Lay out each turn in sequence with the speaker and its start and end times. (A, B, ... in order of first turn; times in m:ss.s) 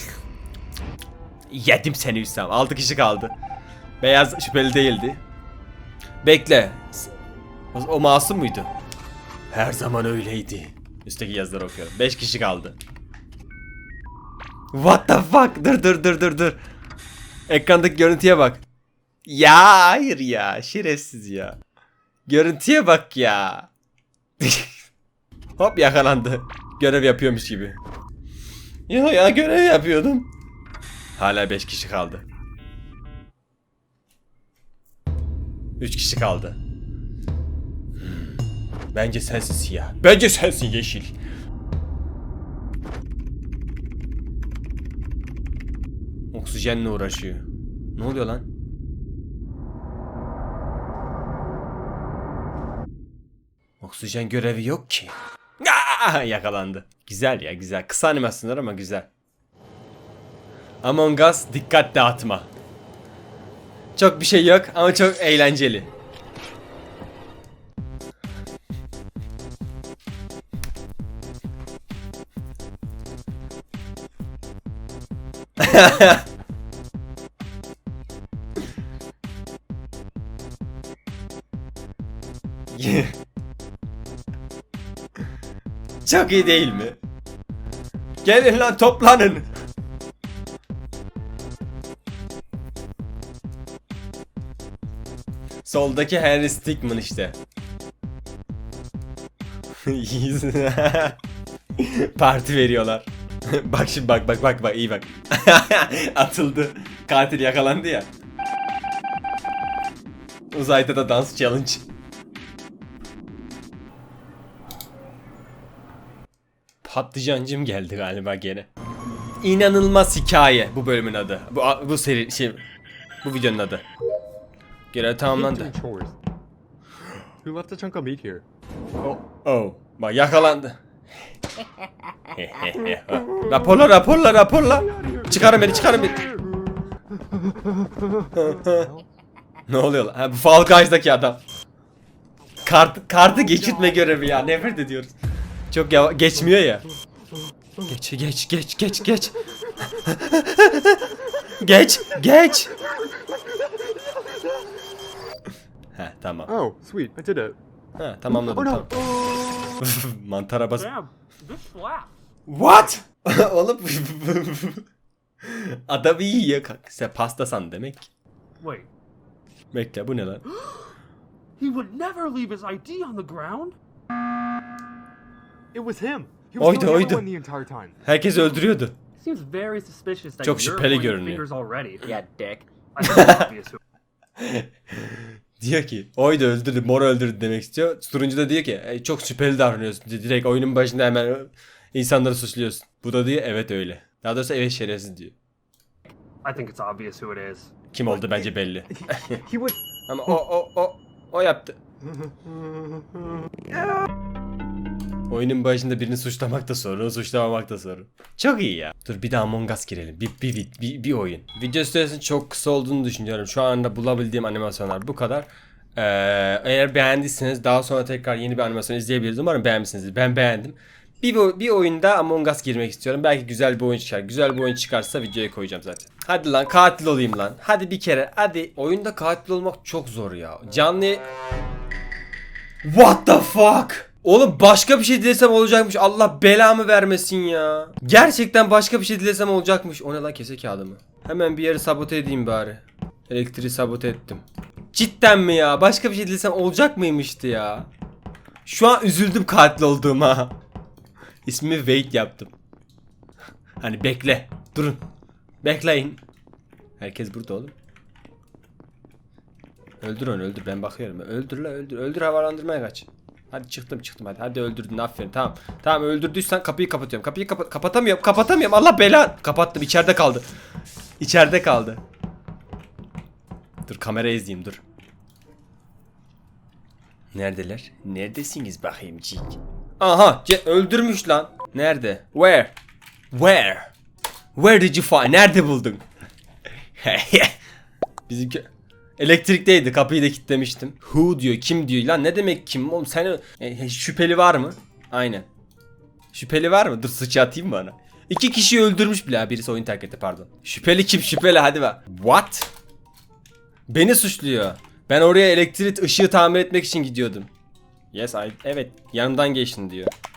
0:01.5-0:03.3 A
0:04.0-0:05.2 A
0:06.2-0:07.1 A
0:07.7-0:08.7 A
0:09.5-0:12.8 A
0:14.7-0:16.6 A
0:17.5-0:18.6 A
0:19.2-0:21.6 A
0:22.3-0:23.7 A
0:24.4-0:24.8 A
0:25.6-0:27.8 A
0:28.9-0:30.3 A
0:31.2-0:32.3 A
0:35.8-0:36.6 A
0:38.0-0:38.4 A
0:38.9-0:41.2 A
0:46.3-0:48.5 A
0:53.8-0:59.1 A
1:00.8-1:02.5 A
1:04.0-1:05.9 A
1:15.6-1:16.2 A
1:22.7-1:23.2 A
1:26.0-1:27.0 A
1:28.2-1:29.5 A
1:35.6-1:37.4 A
1:39.8-1:41.2 A
1:41.8-1:48.1 A
1:50.5-1:51.8 A
1:56.8-1:58.7 A
1:59.4-2:02.6 A
2:03.2-2:03.8 A
2:04.9-2:05.8 A
2:05.3-2:06.2 B
2:07.4-2:08.4 B
2:09.0-2:10.8 A
2:12.3-2:16.3 A
2:18.3-2:18.9 A
2:18.7-2:19.0 B
2:19.7-2:21.4 A
2:22.6-2:25.1 A
2:25.7-2:26.9 A
2:27.8-2:32.7 A
2:35.9-2:36.5 A
2:36.5-2:37.6 B
2:38.0-2:38.9 A
2:38.5-2:39.1 B
2:39.8-2:41.0 A
2:40.8-2:42.1 C
2:42.5-2:44.9 A
2:45.4-2:48.1 A
2:48.6-2:48.9 C
2:49.7-2:50.5 A
2:51.6-2:53.8 C
2:55.7-2:58.0 B
2:56.6-2:57.3 A
2:58.0-2:59.0 A
2:59.2-3:03.8 C
3:00.4-3:01.4 A
3:03.0-3:03.5 A
3:04.4-3:15.4 A
3:16.4-3:17.7 C
3:17.9-3:19.4 A
3:19.0-3:19.8 B
3:20.1-3:21.8 A
3:25.3-3:51.2 A
3:52.8-4:07.9 A
4:08.6-4:10.6 A
4:11.4-4:12.5 A
4:13.8-4:15.0 A
4:15.6-4:16.2 A
4:17.0-4:17.8 A
4:20.0-4:30.5 A
4:31.2-4:32.0 A
4:33.9-4:34.8 A
4:37.3-4:42.7 A
4:43.3-4:43.9 A
4:44.6-4:46.0 A
4:47.0-4:47.6 A
4:48.3-4:55.5 A
4:56.3-5:02.7 A
5:03.9-5:07.5 A
5:08.1-5:10.1 A